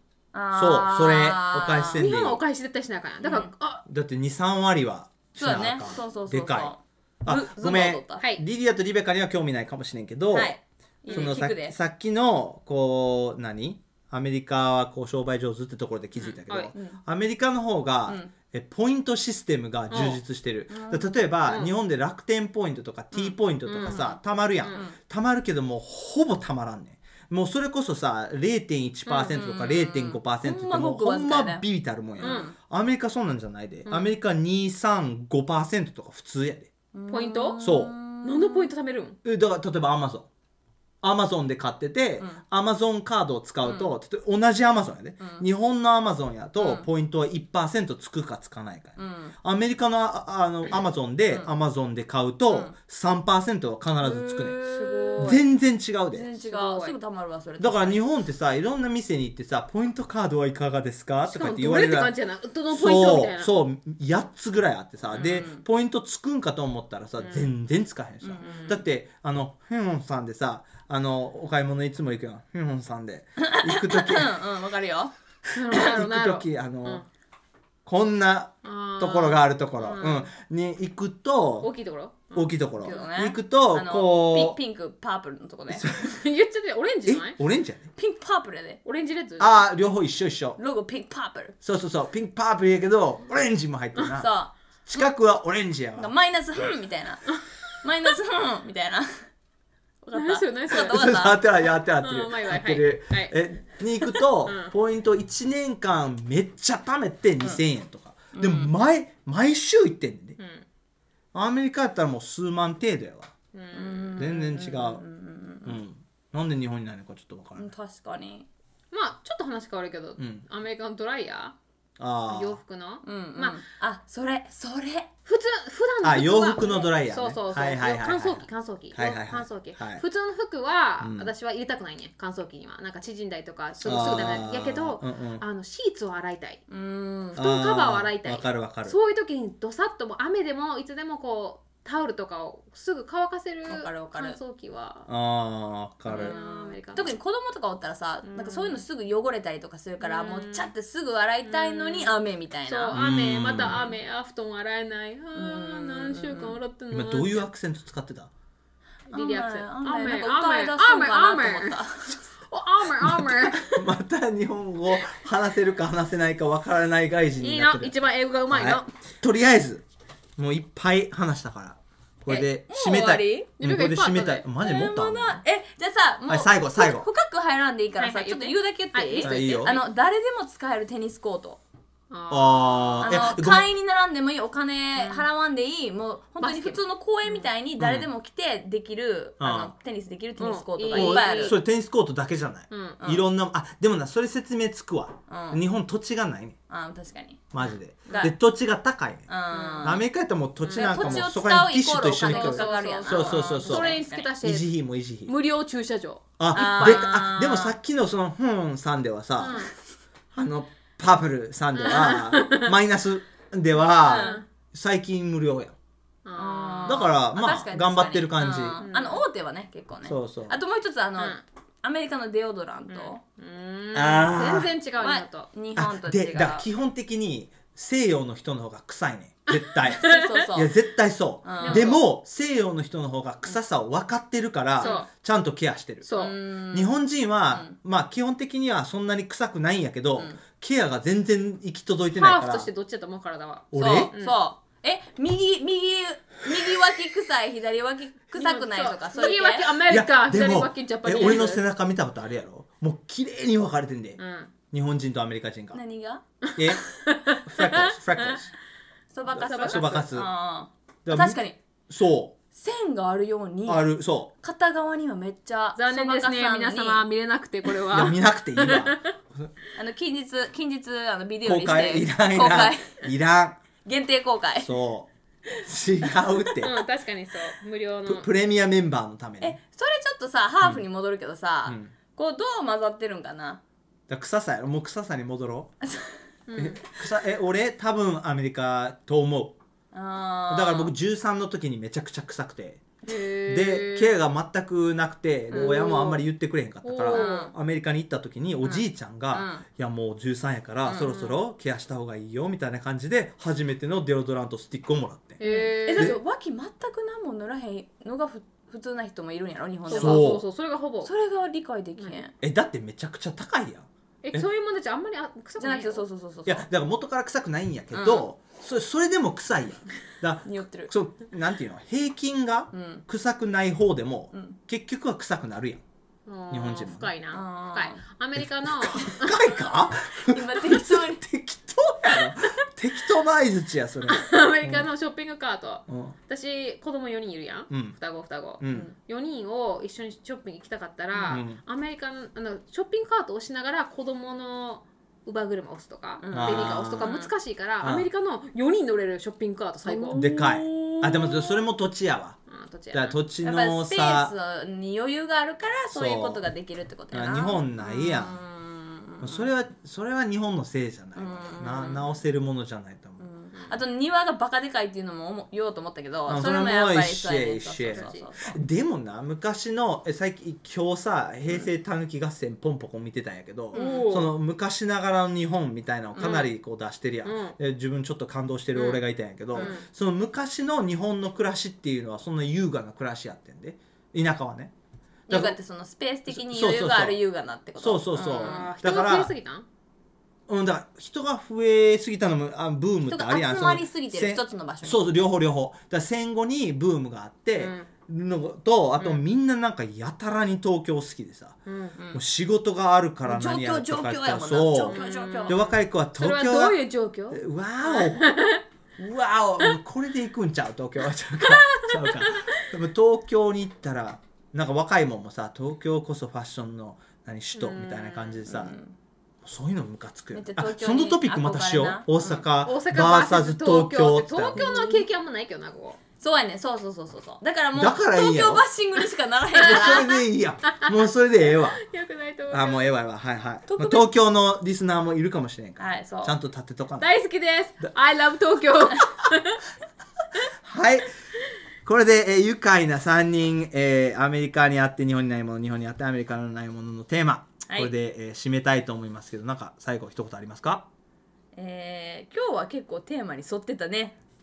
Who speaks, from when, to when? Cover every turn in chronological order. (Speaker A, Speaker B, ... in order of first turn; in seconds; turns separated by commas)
Speaker A: 0.3-2.0, Speaker B: 0.5-2.4, Speaker C: 1.9-3.8, Speaker A: 3.2-3.5, Speaker B: 3.9-10.5, Speaker A: 5.4-8.2, Speaker C: 8.2-8.4, Speaker A: 10.3-11.8, Speaker B: 11.1-36.7, Speaker C: 11.1-11.3, Speaker A: 16.2-17.0, Speaker C: 16.5-16.7, Speaker A: 18.1-18.3, Speaker C: 19.9-20.2, Speaker A: 20.7-21.3, Speaker C: 21.4-21.7, Speaker C: 23.1-24.1, Speaker A: 23.8-24.9, Speaker C: 24.6-24.9, Speaker C: 29.1-29.5, Speaker A: 29.4-32.5, Speaker C: 32.2-32.5, Speaker C: 33.9-34.1, Speaker A: 36.9-38.7, Speaker C: 37.1-37.6, Speaker B: 37.6-37.9, Speaker C: 38.2-39.2, Speaker B: 39.2-40.3, Speaker B: 41.0-54.6, Speaker A: 43.6-44.0, Speaker A: 45.2-45.5, Speaker A: 46.6-46.9, Speaker A: 49.0-49.4, Speaker A: 54.0-55.4, Speaker C: 54.6-55.4, Speaker B: 55.2-56.3, Speaker A: 56.1-58.0, Speaker C: 56.3-57.0, Speaker B: 57.6-62.1, Speaker C: 61.3-63.5, Speaker B: 62.7-74.3, Speaker A: 65.1-65.6, Speaker C: 67.2-67.5, Speaker A: 68.2-68.8, Speaker A: 73.4-75.1, Speaker C: 75.5-77.0, Speaker B: 75.7-77.0, Speaker B: 77.8-81.7, Speaker C: 78.6-80.3, Speaker C: 81.6-83.0, Speaker B: 82.3-84.6, Speaker A: 82.8-85.9, Speaker B: 85.7-86.1, Speaker C: 86.1-87.4, Speaker B: 87.0-87.9, Speaker A: 88.0-88.8, Speaker C: 88.8-89.6, Speaker B: 89.4-90.6, Speaker A: 90.6-91.5, Speaker B: 91.6-94.3, Speaker A: 94.2-95.1, Speaker B: 94.9-96.1, Speaker A: 96.0-99.3, Speaker A: 100.0-101.4, Speaker C: 100.1-101.0, Speaker B: 100.7-110.4, Speaker C: 102.0-103.3, Speaker C: 104.0-104.7, Speaker A: 108.3-108.7, Speaker C: 110.4-110.6, Speaker B: 111.3-113.3, Speaker C: 113.5-114.2, Speaker A: 113.7-115.8, Speaker B: 114.2-115.0, Speaker B: 115.7-117.7, Speaker A: 117.5-118.5, Speaker C: 118.9-121.5, Speaker B: 120.2-120.4, Speaker B: 122.0-122.6, Speaker C: 122.3-123.6, Speaker A: 123.0-125.1, Speaker C: 125.2-136.6, Speaker B: 126.0-130.0, Speaker B: 131.0-131.3, Speaker B: 133.8-135.4, Speaker A: 136.7-137.4, Speaker B: 137.3-138.9, Speaker C: 137.3-145.1, Speaker A: 143.7-144.4, Speaker B: 145.1-146.3, Speaker C: 146.1-147.1, Speaker A: 146.1-153.0, Speaker C: 148.2-148.8, Speaker C: 150.0-150.7, Speaker C: 151.4-157.5, Speaker B: 152.9-153.8, Speaker A: 153.5-154.0, Speaker A: 155.3-156.6, Speaker B: 156.9-158.3, Speaker C: 159.1-161.8, Speaker A: 159.1-162.2, Speaker C: 162.5-163.8, Speaker B: 163.0-168.0, Speaker C: 167.4-168.9, Speaker B: 168.5-169.8, Speaker B: 170.4-175.4, Speaker A: 172.3-173.5, Speaker C: 173.6-174.5, Speaker A: 174.6-181.6, Speaker B: 176.2-177.1, Speaker C: 178.0-179.8, Speaker B: 179.2-179.8, Speaker C: 182.1-183.4, Speaker B: 182.3-183.7, Speaker A: 183.0-191.6, Speaker C: 184.9-185.3, Speaker C: 186.4-187.5, Speaker B: 187.8-188.1, Speaker B: 189.4-189.7, Speaker C: 190.4-191.6, Speaker B: 190.9-196.6, Speaker C: 192.7-193.0, Speaker A: 193.0-193.2, Speaker A: 195.3-195.6, Speaker A: 196.7-197.4, Speaker B: 197.5-199.3, Speaker C: 198.1-198.3, Speaker A: 198.1-198.3, Speaker A: 199.3-200.1, Speaker C: 199.5-200.0, Speaker B: 199.8-205.3, Speaker C: 200.6-201.3, Speaker A: 200.7-204.3, Speaker C: 202.2-207.7, Speaker B: 206.4-209.7, Speaker A: 206.5-207.6, Speaker C: 209.4-209.7, Speaker B: 210.3-215.7, Speaker C: 211.7-212.7, Speaker A: 214.0-214.4, Speaker C: 214.1-214.4, Speaker C: 216.2-217.1, Speaker A: 216.3-223.2, Speaker B: 216.8-218.8, Speaker C: 218.4-219.2, Speaker B: 220.0-220.6, Speaker C: 221.2-221.4, Speaker C: 222.9-225.5, Speaker B: 223.9-224.7, Speaker A: 225.0-226.7, Speaker B: 225.7-236.1, Speaker C: 229.5-230.5, Speaker A: 229.9-230.8, Speaker A: 231.4-231.9, Speaker C: 231.6-232.0, Speaker A: 234.8-235.1, Speaker C: 234.8-235.1, Speaker C: 236.0-236.3, Speaker A: 236.2-236.9, Speaker B: 236.7-242.7, Speaker A: 237.5-237.8, Speaker C: 242.1-244.4, Speaker B: 243.7-244.1, Speaker A: 243.7-249.8, Speaker C: 248.3-251.6, Speaker B: 249.8-254.2, Speaker A: 251.1-251.5, Speaker C: 254.2-254.5, Speaker B: 254.7-255.8, Speaker A: 255.7-256.2, Speaker C: 256.5-258.4, Speaker B: 256.6-258.5, Speaker A: 259.1-261.6, Speaker C: 259.3-260.1, Speaker B: 259.3-260.3, Speaker B: 261.1-262.4, Speaker A: 262.5-267.1, Speaker B: 263.6-264.3, Speaker C: 265.8-269.1, Speaker B: 267.8-269.5, Speaker A: 269.7-273.0, Speaker B: 271.4-273.6, Speaker A: 273.8-274.7, Speaker B: 274.6-276.8, Speaker C: 276.6-278.3, Speaker B: 278.1-279.6, Speaker A: 279.4-283.6, Speaker B: 281.6-281.9, Speaker B: 284.1-285.8, Speaker A: 285.8-286.2, Speaker C: 286.5-286.8, Speaker B: 286.6-289.6, Speaker A: 289.9-290.9, Speaker B: 290.5-292.9, Speaker C: 293.0-294.1, Speaker B: 293.5-305.4, Speaker A: 295.5-296.2, Speaker C: 295.5-296.2, Speaker C: 296.8-297.5, Speaker A: 297.1-297.5, Speaker A: 298.6-299.6, Speaker A: 300.9-301.1, Speaker C: 300.9-301.4, Speaker C: 305.4-306.2, Speaker A: 305.4-310.3, Speaker B: 305.9-306.2, Speaker C: 309.9-311.1, Speaker B: 309.9-310.4, Speaker A: 311.0-312.3, Speaker C: 312.0-312.2, Speaker B: 312.4-314.4, Speaker C: 314.2-316.0, Speaker A: 315.6-316.7, Speaker B: 316.4-325.8, Speaker A: 317.9-318.3, Speaker A: 320.4-320.9, Speaker A: 322.7-323.0, Speaker A: 324.3-324.6, Speaker C: 326.3-329.5, Speaker B: 326.5-327.1, Speaker A: 327.3-328.0, Speaker B: 328.4-334.9, Speaker A: 330.1-331.2, Speaker C: 334.1-350.3, Speaker B: 335.9-336.1, Speaker B: 337.7-338.0, Speaker B: 338.6-338.9, Speaker A: 341.1-341.4, Speaker B: 341.3-341.6, Speaker A: 346.2-347.3, Speaker B: 346.3-347.1, Speaker B: 347.8-348.1, Speaker A: 349.9-351.5, Speaker B: 350.1-352.4, Speaker C: 352.5-353.1, Speaker B: 352.9-354.3, Speaker A: 353.4-359.5, Speaker B: 355.9-356.4, Speaker B: 357.1-358.4, Speaker B: 359.2-363.3, Speaker A: 361.1-362.2, Speaker A: 363.2-368.6, Speaker C: 363.5-363.8, Speaker B: 366.3-384.7, Speaker C: 367.9-368.3, Speaker A: 373.7-374.1, Speaker C: 373.7-374.3, Speaker A: 376.1-376.5, Speaker C: 376.2-376.5, Speaker C: 377.2-377.6, Speaker C: 378.7-379.0, Speaker C: 379.5-379.9, Speaker A: 385.3-388.7, Speaker B: 385.3-385.6, Speaker B: 386.3-387.2, Speaker B: 387.8-389.3, Speaker C: 388.1-389.7, Speaker B: 390.5-401.6, Speaker A: 393.1-395.1, Speaker C: 397.6-397.9, Speaker C: 399.0-399.2, Speaker C: 401.6-402.0, Speaker B: 402.1-406.8, Speaker A: 403.2-405.6, Speaker C: 404.9-405.6, Speaker C: 406.1-408.6, Speaker B: 407.3-408.3, Speaker B: 409.0-418.7, Speaker C: 411.4-412.6, Speaker C: 417.5-418.5, Speaker A: 418.5-418.9, Speaker B: 419.4-424.6, Speaker A: 420.3-422.4, Speaker C: 422.6-426.0, Speaker A: 424.6-425.0, Speaker A: 426.2-430.0, Speaker B: 427.7-428.6, Speaker C: 429.6-430.1, Speaker B: 429.6-431.8, Speaker C: 430.7-432.8, Speaker B: 432.5-437.1, Speaker A: 433.7-434.1, Speaker A: 435.8-436.4, Speaker C: 437.0-439.6, Speaker B: 440.6-441.1, Speaker B: 441.8-450.9, Speaker A: 447.7-447.9, Speaker A: 451.5-454.2